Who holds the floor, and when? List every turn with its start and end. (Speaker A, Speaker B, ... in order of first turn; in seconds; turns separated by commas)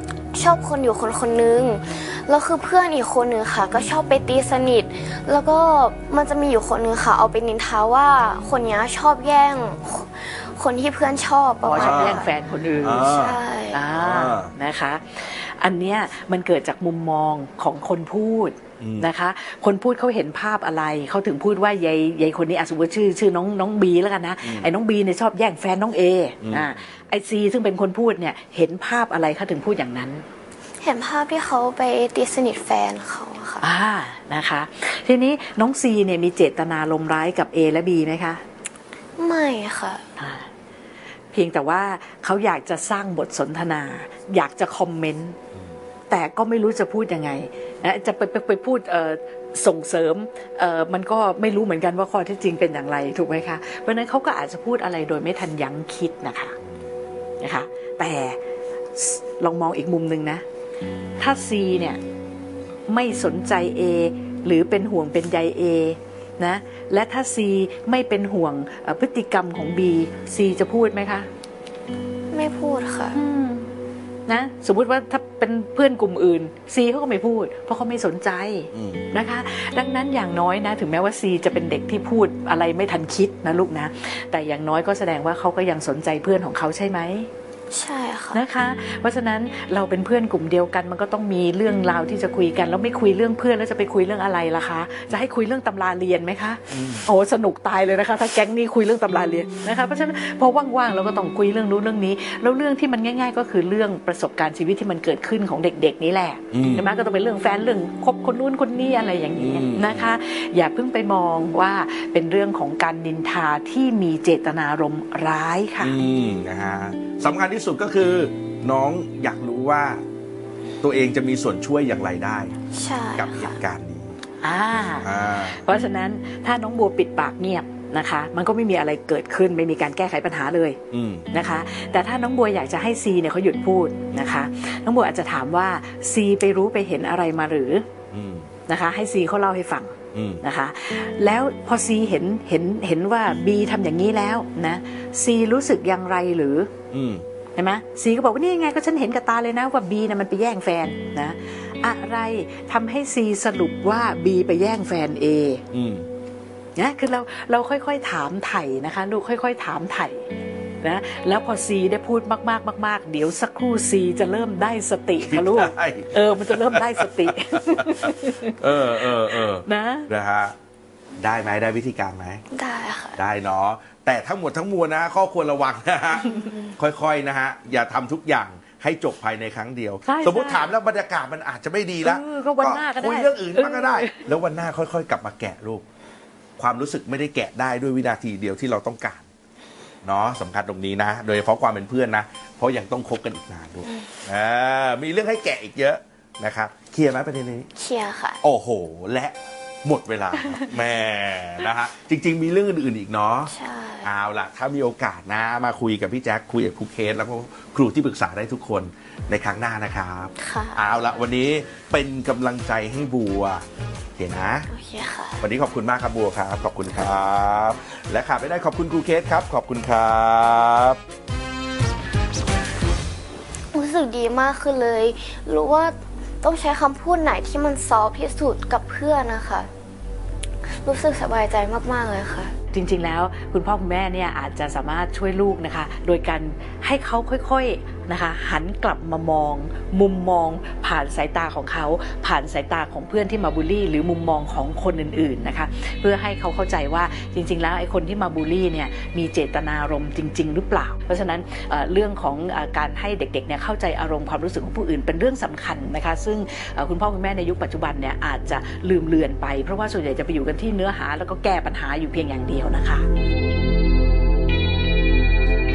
Speaker A: 0.3-12.3, Speaker B: 11.6-13.1, Speaker C: 11.7-12.3, Speaker C: 12.8-13.4, Speaker A: 13.0-13.9, Speaker B: 13.7-30.2, Speaker C: 13.9-14.5, Speaker C: 18.8-19.1, Speaker C: 24.4-24.7, Speaker C: 26.4-26.8, Speaker A: 30.8-33.7, Speaker B: 33.6-38.4, Speaker A: 39.2-40.0, Speaker B: 40.2-40.5, Speaker B: 41.3-45.4, Speaker B: 46.1-56.5, Speaker B: 57.4-58.4, Speaker B: 59.0-60.4, Speaker B: 61.2-62.0, Speaker B: 62.9-71.3, Speaker A: 72.3-73.2, Speaker B: 73.1-73.7, Speaker B: 74.3-87.3, Speaker C: 78.7-79.1, Speaker A: 87.7-88.4, Speaker B: 88.3-116.0, Speaker C: 96.7-97.0, Speaker C: 106.5-106.8, Speaker C: 109.3-110.1, Speaker C: 115.8-120.0, Speaker C: 120.8-122.6, Speaker A: 122.7-123.6, Speaker C: 123.2-124.2, Speaker B: 124.4-130.8, Speaker C: 125.0-125.6, Speaker C: 130.9-131.3, Speaker B: 131.3-137.8, Speaker C: 138.1-138.5, Speaker B: 138.7-146.7, Speaker C: 140.1-140.4, Speaker C: 146.9-147.2, Speaker B: 147.6-155.6, Speaker C: 155.7-156.1, Speaker B: 156.8-160.3, Speaker B: 160.8-170.1, Speaker C: 165.2-170.6, Speaker C: 171.2-172.4, Speaker A: 172.5-173.2, Speaker C: 173.2-185.8, Speaker B: 180.1-180.7, Speaker B: 182.0-184.2, Speaker C: 186.6-189.3, Speaker C: 190.0-197.7, Speaker A: 197.8-198.4, Speaker C: 198.4-213.7, Speaker A: 203.5-204.1, Speaker A: 210.4-210.8, Speaker C: 214.2-214.7, Speaker A: 214.7-215.4, Speaker C: 215.4-221.0, Speaker A: 223.7-229.7, Speaker A: 230.8-232.5, Speaker B: 232.7-263.1